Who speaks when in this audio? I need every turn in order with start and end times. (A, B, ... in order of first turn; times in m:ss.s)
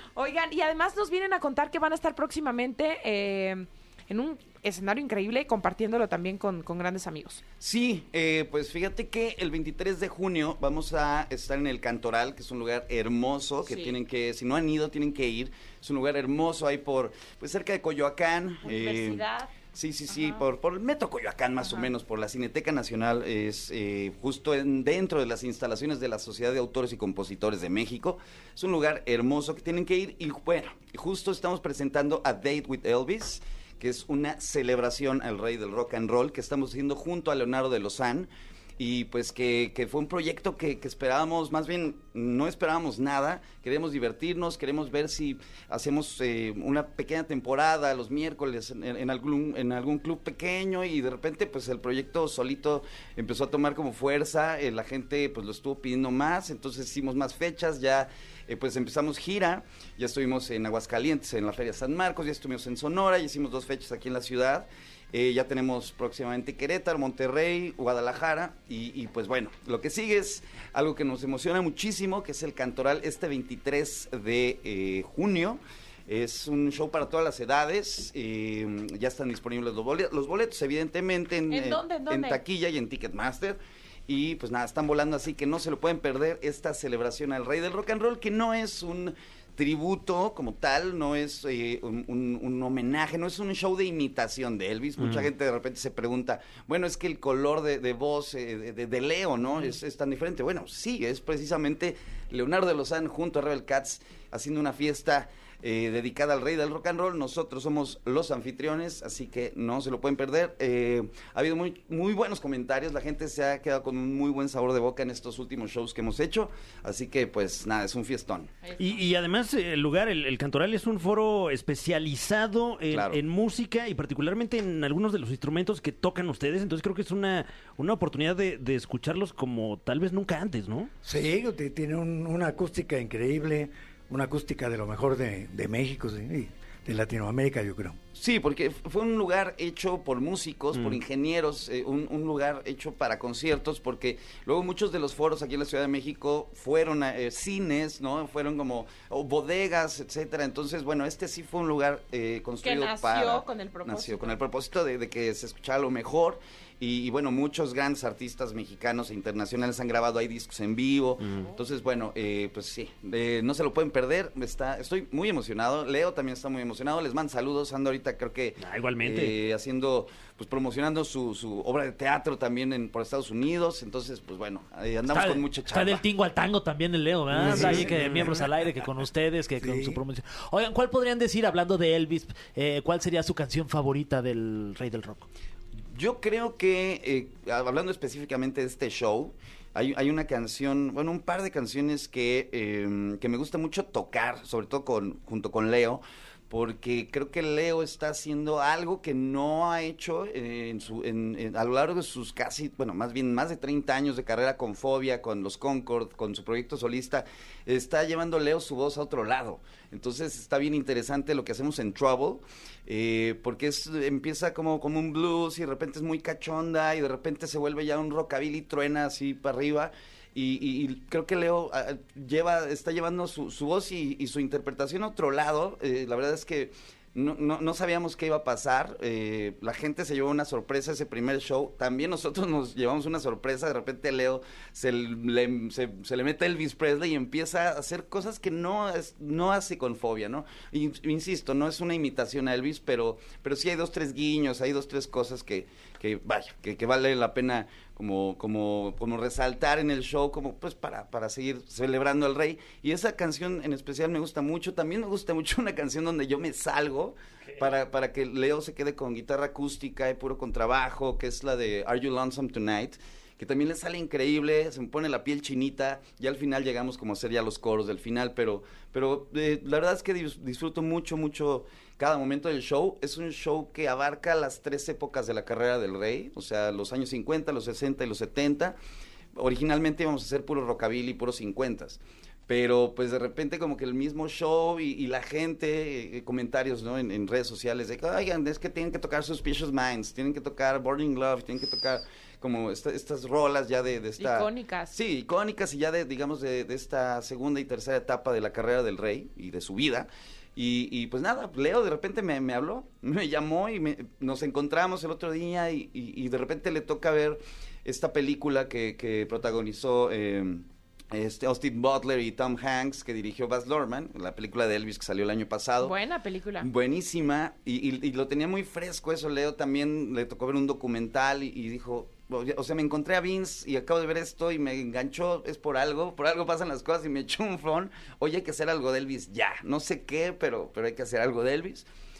0:00.2-0:07.4 A
0:07.6-1:58.5 B
0:13.6-0:14.0 A
0:18.6-0:19.5 A
0:20.1-0:20.4 A
0:21.6-0:21.9 A
1:21.5-1:22.4 A
1:35.0-1:35.3 C
1:58.6-1:59.0 A
1:58.8-2:10.9 C
2:02.9-2:03.2 B
2:11.0-2:18.0 D
2:18.1-2:56.0 B
2:20.7-2:21.0 C
2:32.6-2:34.4 A
2:48.6-2:49.4 C
2:55.1-3:05.3 E
2:57.3-2:57.9 D
2:57.4-2:58.4 C
2:57.5-2:57.9 B
2:59.6-3:00.0 D
3:05.9-4:38.8 B
4:39.3-5:16.0 B
4:54.2-4:55.0 A
5:15.8-5:16.7 A
5:16.6-5:31.9 B